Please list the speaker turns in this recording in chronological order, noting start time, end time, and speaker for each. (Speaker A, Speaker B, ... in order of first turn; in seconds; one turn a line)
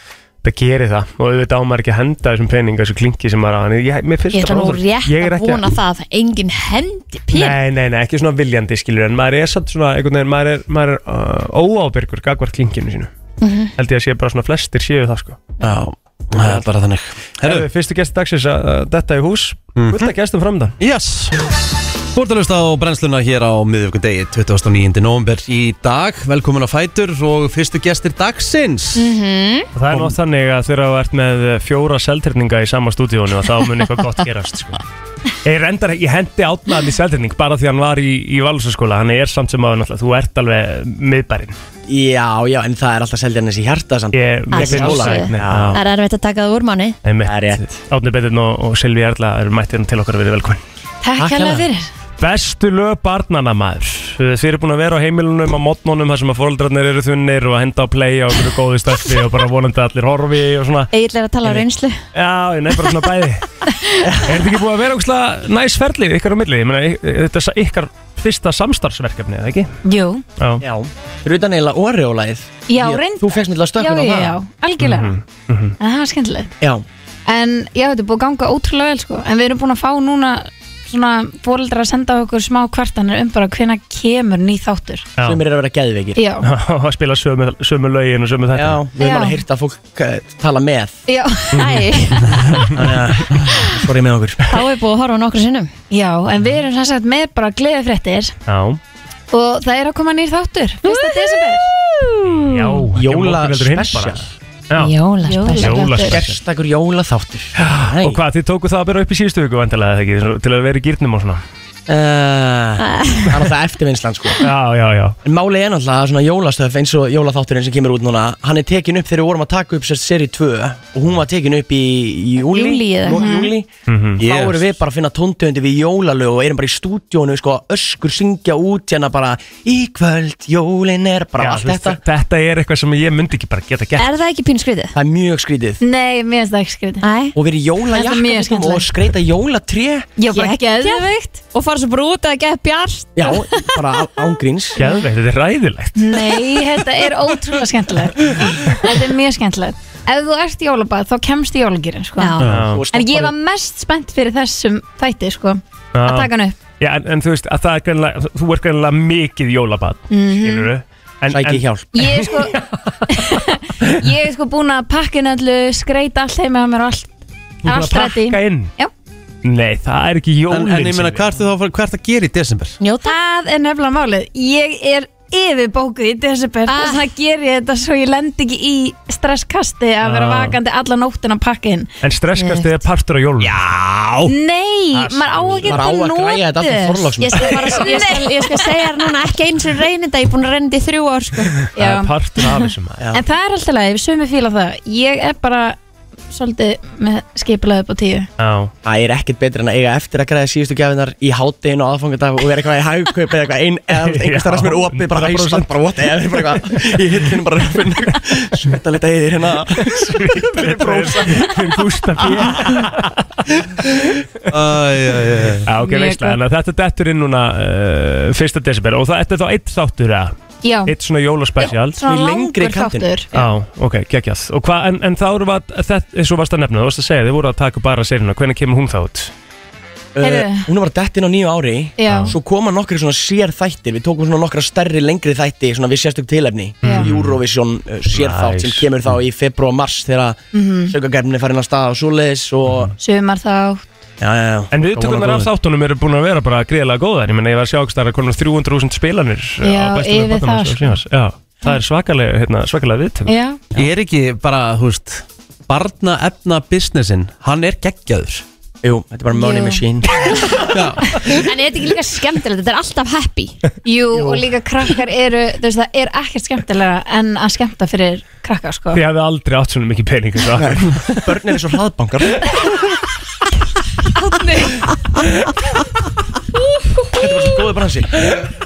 Speaker A: 0.4-5.7
Speaker B: 4.3-7.6
Speaker A: 7.3-13.1
Speaker B: 13.4-13.7
Speaker A: 13.8-15.4
Speaker C: 15.6-17.7
Speaker A: 16.4-16.6
Speaker A: 17.4-20.8
Speaker C: 19.8-20.1
Speaker C: 20.8-21.5
Speaker C: 22.1-29.1
Speaker B: 29.0-29.7
Speaker A: 29.8-34.8
Speaker C: 29.9-30.2
Speaker A: 35.4-41.6
Speaker D: 41.9-45.8
Speaker A: 44.1-45.8
Speaker B: 44.5-47.0
Speaker A: 47.0-50.6
Speaker D: 47.2-47.8
Speaker E: 51.0-51.9
Speaker D: 51.2-51.7
Speaker A: 52.2-60.9
Speaker B: 60.9-62.0
Speaker A: 62.1-63.5
Speaker D: 64.0-64.4
Speaker A: 64.2-69.8
Speaker E: 69.8-70.2
Speaker A: 70.4-70.6
Speaker D: 70.6-74.4
Speaker E: 72.7-75.2
Speaker A: 74.8-75.8
Speaker E: 75.8-76.5
Speaker E: 77.3-85.1
Speaker D: 85.2-86.2
Speaker E: 86.2-86.5
Speaker A: 86.4-88.8
Speaker D: 88.5-91.0
Speaker E: 89.0-89.4
Speaker E: 91.1-91.7
Speaker B: 91.5-92.7
Speaker A: 91.5-91.8
Speaker D: 92.7-94.4
Speaker B: 93.3-93.7
Speaker B: 94.4-95.7
Speaker E: 95.9-98.3
Speaker A: 98.5-98.8
Speaker E: 99.3-101.7
Speaker B: 100.8-102.8
Speaker A: 102.3-104.9
Speaker D: 102.9-104.3
Speaker B: 104.8-105.8
Speaker E: 105.2-106.2
Speaker A: 105.5-106.4
Speaker D: 106.0-108.2
Speaker A: 107.5-111.4
Speaker D: 111.9-114.4
Speaker B: 112.8-113.4
Speaker A: 114.4-115.2
Speaker D: 115.2-132.0
Speaker B: 122.5-123.3
Speaker E: 123.2-123.5
Speaker A: 123.9-124.2
Speaker C: 124.2-124.8
Speaker A: 131.4-134.1
Speaker B: 134.0-134.9
Speaker D: 134.9-135.8
Speaker E: 135.8-137.1
Speaker B: 137.0-137.4
Speaker D: 137.3-140.2
Speaker E: 137.9-138.9
Speaker E: 140.2-141.3
Speaker B: 140.3-143.8
Speaker D: 143.2-144.8
Speaker B: 144.8-145.0
Speaker A: 144.8-146.3
Speaker E: 146.0-156.6
Speaker B: 152.2-152.4
Speaker C: 152.4-152.8
Speaker A: 152.4-152.8
Speaker D: 152.7-153.3
Speaker A: 155.9-164.0
Speaker E: 160.1-160.7
Speaker D: 161.3-162.1
Speaker E: 161.9-168.9
Speaker A: 167.6-168.8
Speaker A: 169.4-171.3
Speaker C: 170.5-172.8
Speaker B: 172.8-173.2
Speaker E: 173.0-181.9
Speaker B: 176.7-177.0
Speaker A: 180.0-180.6
Speaker A: 182.0-183.6
Speaker B: 182.4-182.8
Speaker C: 183.4-184.3
Speaker E: 184.2-188.8
Speaker A: 184.9-185.8
Speaker D: 185.6-187.9
Speaker B: 187.3-191.6
Speaker A: 191.6-193.1
Speaker E: 191.8-195.8
Speaker E: 196.3-198.3
Speaker A: 198.4-198.7
Speaker D: 198.8-211.6
Speaker A: 203.9-207.0
Speaker A: 209.8-213.3
Speaker C: 214.5-215.7
Speaker A: 215.7-220.3
Speaker E: 215.8-216.4
Speaker E: 220.6-220.9
Speaker A: 220.9-222.0
Speaker E: 221.6-223.3
Speaker D: 222.1-223.1
Speaker A: 223.3-229.3
Speaker D: 230.2-242.9
Speaker E: 230.2-230.7
Speaker E: 232.0-232.4
Speaker A: 232.1-232.3
Speaker A: 236.8-237.4
Speaker E: 236.8-237.1
Speaker A: 238.1-238.9
Speaker E: 240.5-240.9
Speaker E: 243.0-243.8
Speaker D: 244.2-245.5
Speaker A: 244.7-253.3
Speaker E: 249.6-251.0
Speaker E: 253.3-253.6
Speaker C: 253.8-258.4
Speaker D: 258.8-260.2
Speaker E: 259.4-259.8
Speaker B: 260.2-263.6
Speaker C: 260.7-261.2
Speaker E: 263.9-269.0
Speaker A: 268.9-271.3
Speaker D: 270.6-272.5
Speaker D: 277.1-278.2